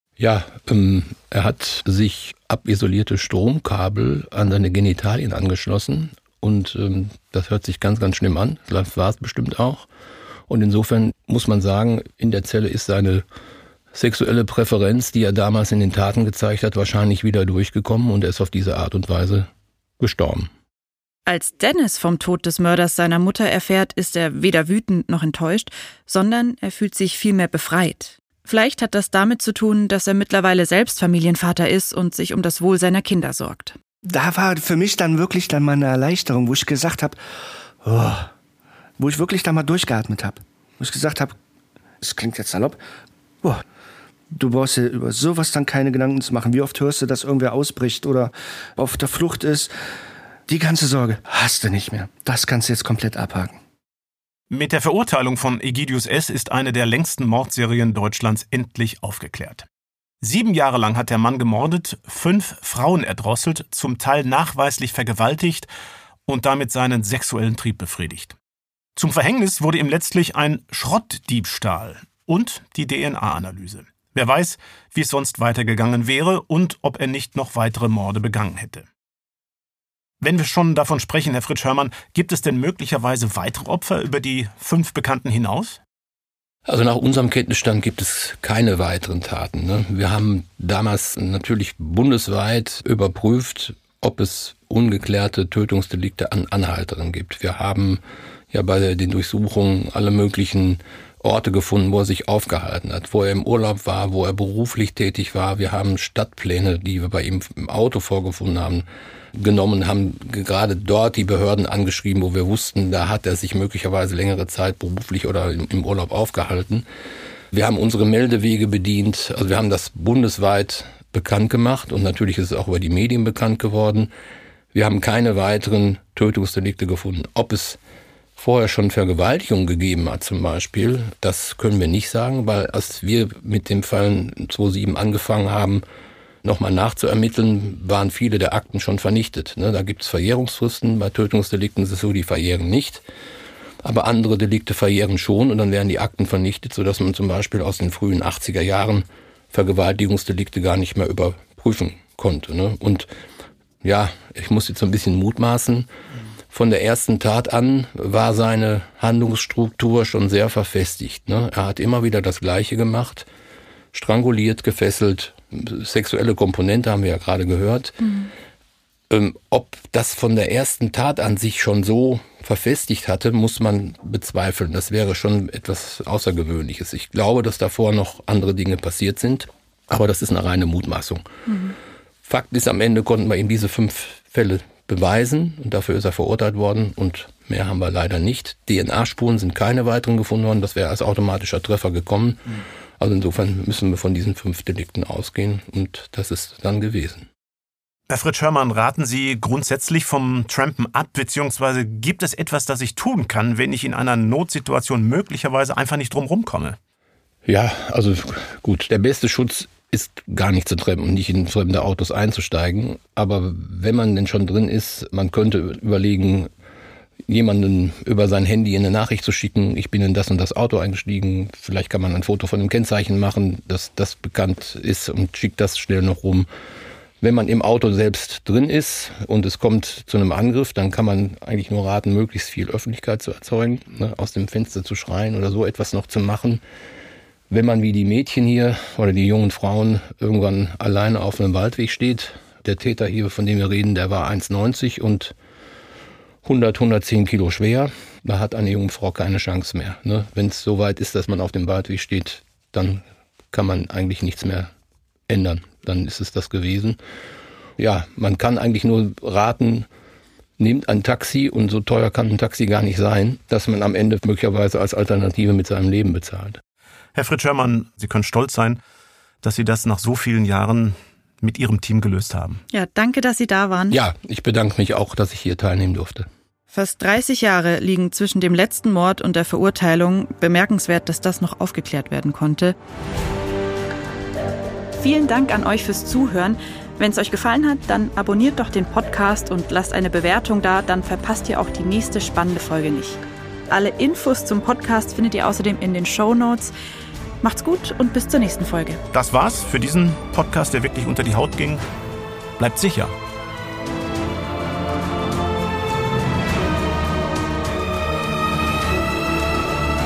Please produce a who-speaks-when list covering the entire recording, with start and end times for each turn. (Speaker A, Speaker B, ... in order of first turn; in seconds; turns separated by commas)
Speaker A: 0.2-9.9, Speaker A: 10.5-13.2, Speaker A: 13.9-20.5, Speaker B: 21.3-33.8, Speaker C: 34.1-37.2, Speaker C: 37.8-38.3, Speaker C: 39.0-41.4, Speaker C: 42.0-42.8, Speaker C: 44.3-49.7, Speaker C: 50.5-53.6, Speaker D: 54.5-59.7, Speaker D: 60.2-65.7, Speaker D: 66.3-68.4, Speaker D: 69.0-78.9, Speaker D: 80.2-85.8, Speaker A: 86.7-116.8, Speaker A: 117.5-124.1, Speaker A: 124.7-127.8, Speaker A: 128.4-135.8, Speaker A: 136.4-143.0, Speaker A: 143.8-153.1, Speaker A: 153.8-155.9, Speaker A: 156.5-163.3, Speaker A: 163.9-168.0, Speaker B: 168.0-168.3, Speaker A: 169.1-181.2, Speaker B: 181.5-181.8, Speaker A: 182.2-197.3, Speaker D: 198.1-206.8, Speaker A: 207.4-216.5, Speaker A: 217.3-226.5, Speaker A: 227.2-236.6, Speaker A: 237.5-245.3, Speaker A: 246.4-254.7, Speaker A: 255.3-257.0, Speaker A: 257.8-259.9, Speaker A: 260.6-266.6, Speaker D: 267.1-268.8, Speaker D: 269.4-272.6, Speaker B: 272.7-274.0, Speaker A: 273.9-276.3, Speaker B: 276.7-282.8, Speaker B: 285.0-296.7, Speaker B: 297.4-299.0, Speaker D: 299.1-301.8, Speaker D: 302.6-303.1